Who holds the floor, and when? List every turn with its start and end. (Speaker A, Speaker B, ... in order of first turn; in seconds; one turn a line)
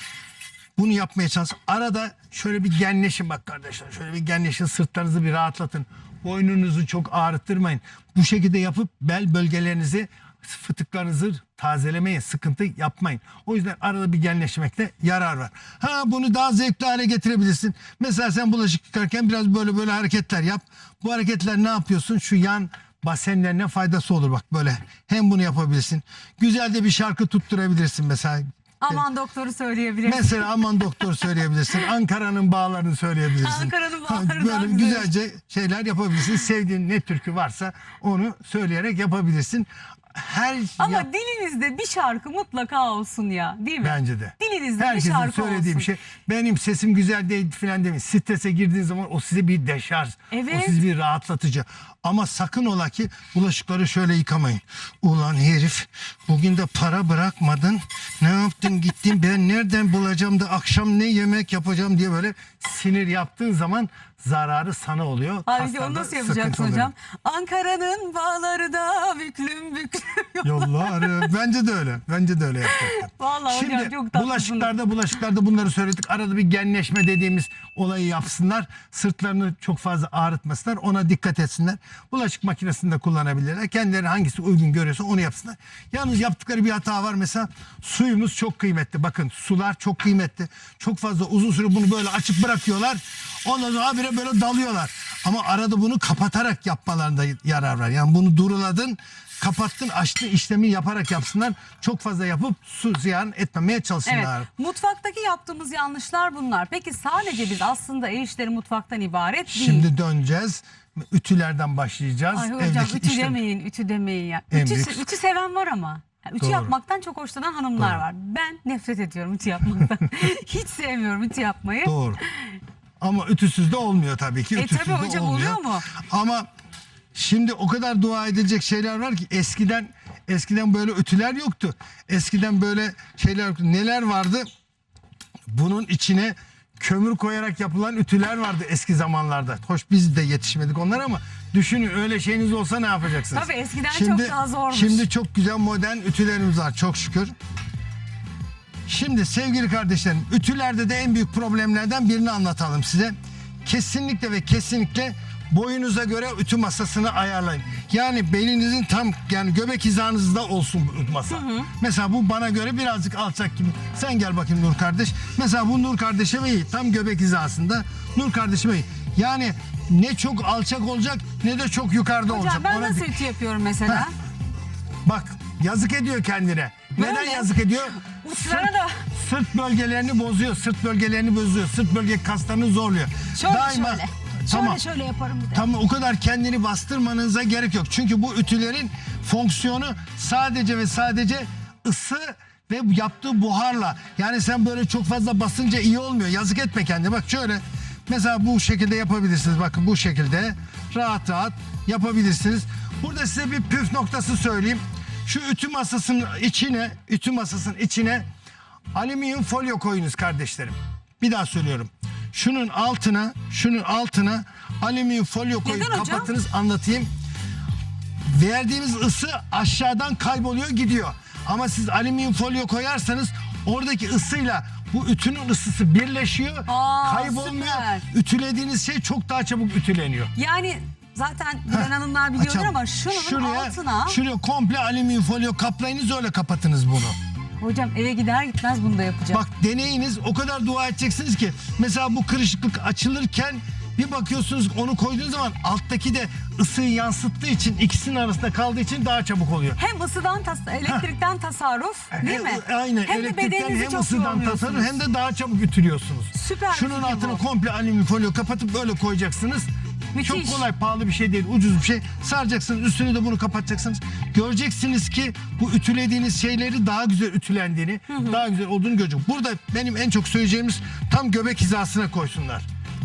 Speaker A: 0.8-29.0
Speaker B: 28.8-30.9
Speaker A: 30.1-41.1
Speaker B: 33.4-35.1
Speaker B: 40.8-45.9
Speaker A: 43.8-66.9
Speaker B: 50.3-50.8
Speaker B: 65.5-71.2
Speaker A: 70.4-104.5
Speaker B: 72.7-74.7
Speaker B: 104.1-109.9
Speaker A: 109.5-113.4
Speaker B: 112.3-122.5
Speaker A: 114.5-115.0
Speaker A: 116.4-116.7
Speaker A: 117.8-118.0
Speaker A: 121.8-122.2
Speaker A: 123.0-126.5
Speaker B: 124.5-125.9
Speaker A: 127.1-134.4
Speaker A: 135.5-147.3
Speaker B: 143.3-145.1
Speaker A: 148.9-173.1
Speaker B: 161.3-161.7
Speaker B: 172.3-174.1
Speaker A: 175.1-184.8
Speaker B: 176.9-177.5
Speaker B: 178.0-179.0
Speaker B: 183.3-185.7
Speaker A: 185.5-208.2
Speaker A: 208.9-217.1
Speaker B: 215.6-216.3
Speaker A: 218.2-230.3
Speaker B: 226.7-228.0
Speaker B: 230.3-234.2
Speaker A: 231.7-237.1
Speaker B: 237.6-239.4
Speaker A: 239.3-249.8
Speaker B: 249.8-254.9
Speaker A: 252.1-259.7
Speaker B: 256.3-257.4
Speaker B: 260.1-260.6
Speaker A: 260.2-272.6
Speaker B: 268.1-268.4